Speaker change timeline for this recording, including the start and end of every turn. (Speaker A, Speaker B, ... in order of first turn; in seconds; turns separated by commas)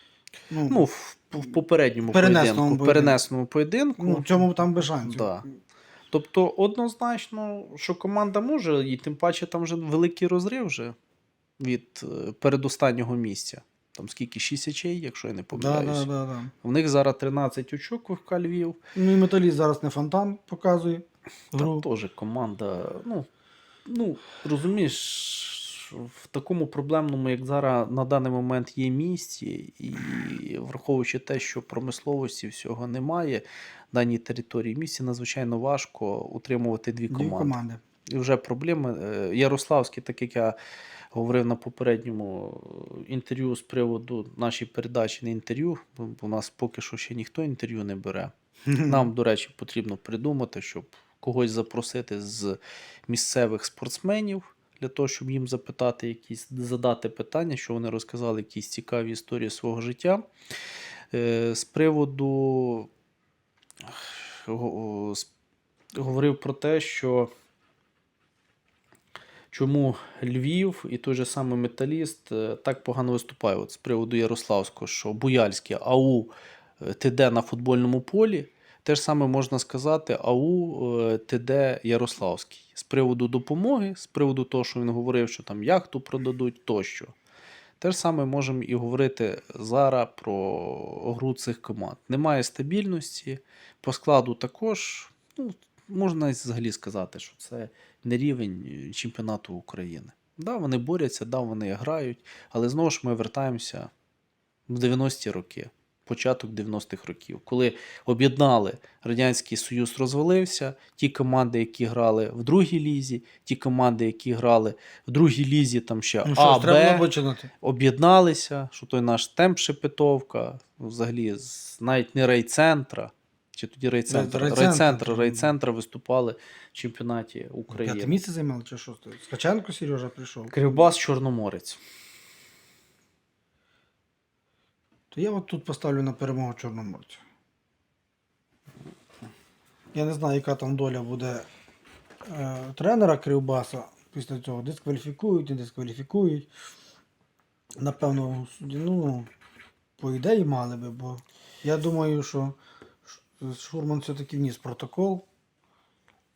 Speaker A: 0.5-0.8, Speaker B: 0.7-5.5, Speaker A: 2.1-3.2, Speaker A: 4.0-5.3, Speaker B: 6.1-11.0, Speaker B: 11.6-16.1, Speaker A: 15.5-16.5, Speaker B: 16.6-18.8, Speaker A: 18.9-21.9, Speaker B: 21.5-23.3, Speaker B: 23.9-37.6, Speaker A: 37.1-37.8, Speaker B: 38.1-40.6, Speaker B: 41.1-60.2, Speaker A: 48.7-49.1, Speaker B: 61.1-62.9, Speaker B: 63.9-65.3, Speaker B: 66.0-67.3, Speaker B: 69.5-87.1, Speaker B: 87.8-103.9, Speaker B: 104.7-117.1, Speaker A: 116.2-117.5, Speaker B: 117.6-128.1, Speaker A: 124.1-125.5, Speaker A: 127.7-130.8, Speaker B: 130.5-131.8, Speaker A: 135.1-137.2, Speaker A: 139.9-141.5, Speaker A: 142.3-146.5, Speaker A: 147.8-149.3, Speaker A: 150.0-155.3